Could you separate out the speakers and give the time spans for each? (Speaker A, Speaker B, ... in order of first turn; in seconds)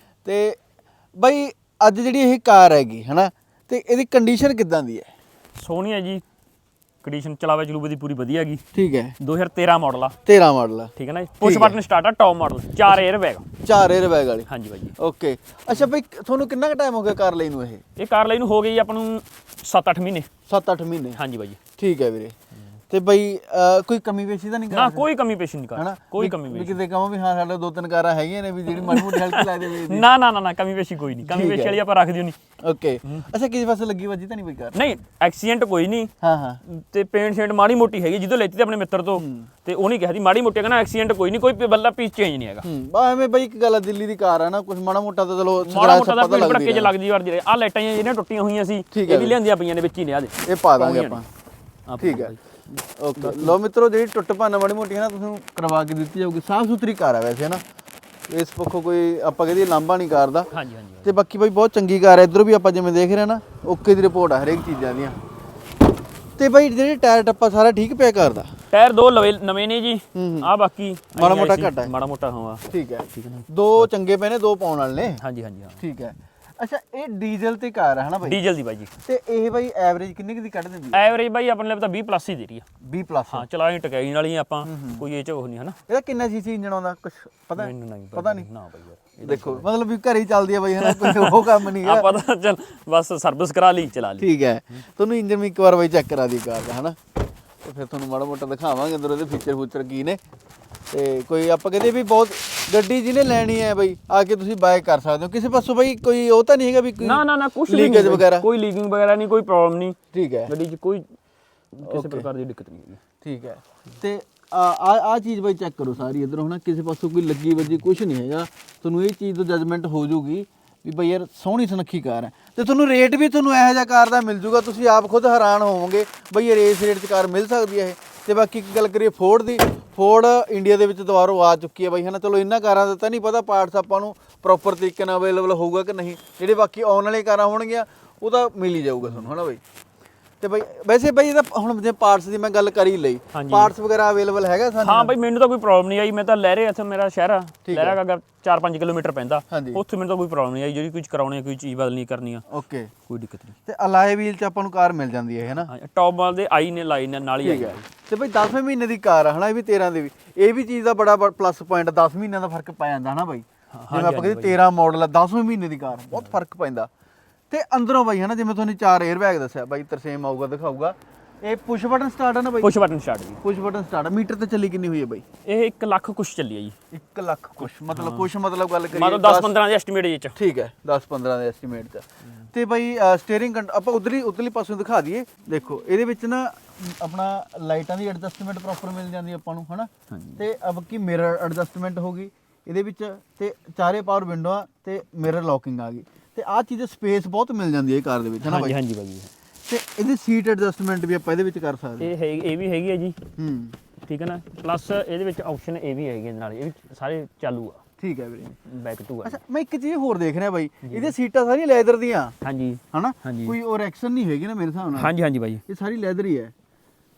Speaker A: 0.2-0.6, 1.2-5.1, 8.7-9.1, 10.2-11.8, 13.6-17.8, 20.5-21.2, 21.8-22.3, 22.9-25.1, 25.8-30.0, 31.2-31.8, 32.6-34.8, 36.2-36.6, 39.2-39.5, 42.6-46.9, 48.9-49.4, 50.4-51.3, 52.0-52.3, 52.9-57.6, 58.3-60.5, 61.0-65.2, 66.4-68.5, 70.1-70.5, 71.2-71.9, 72.7-75.2, 75.8-78.4, 79.0-81.0, 82.8-83.4, 84.6-85.0, 85.9-88.5, 89.2-92.1, 94.2-97.0, 97.6-100.2, 100.9-108.5, 110.1-110.5, 111.8-112.2, 113.2-139.6, 140.4-145.1, 147.6-148.0, 149.5-149.8, 152.5-152.9, 153.7-155.7, 157.4-166.9, 167.5-172.7, 173.4-175.2, 176.9-179.5, 180.3-198.7, 199.7-202.1, 203.4-203.8, 208.0-208.6, 209.2-212.3, 212.9-215.1, 215.7-216.5
Speaker B: 5.6-6.2, 7.0-8.6, 9.2-10.2, 10.9-13.4, 14.5-14.9, 17.9-20.3, 21.2-21.6, 24.7-26.8, 28.7-32.4, 34.7-36.1, 36.6-42.6, 45.6-51.2, 51.9-52.4, 53.2-53.6, 60.5-61.1, 68.7-73.9, 75.2-75.8, 78.2-78.9, 80.9-82.7, 83.3-85.8, 87.6-89.7, 90.8-94.3, 107.0-111.0, 111.7-113.0, 139.0-139.3, 143.3-143.7, 144.8-152.4, 153.1-153.6, 155.5-157.8, 163.7-164.6, 172.6-173.4, 175.4-176.8, 177.9-178.3, 178.9-180.4, 190.1-190.4, 198.4-199.3, 202.0-203.2, 204.0-207.8, 208.6-209.4, 210.8-211.1, 212.4-213.6, 215.0-215.6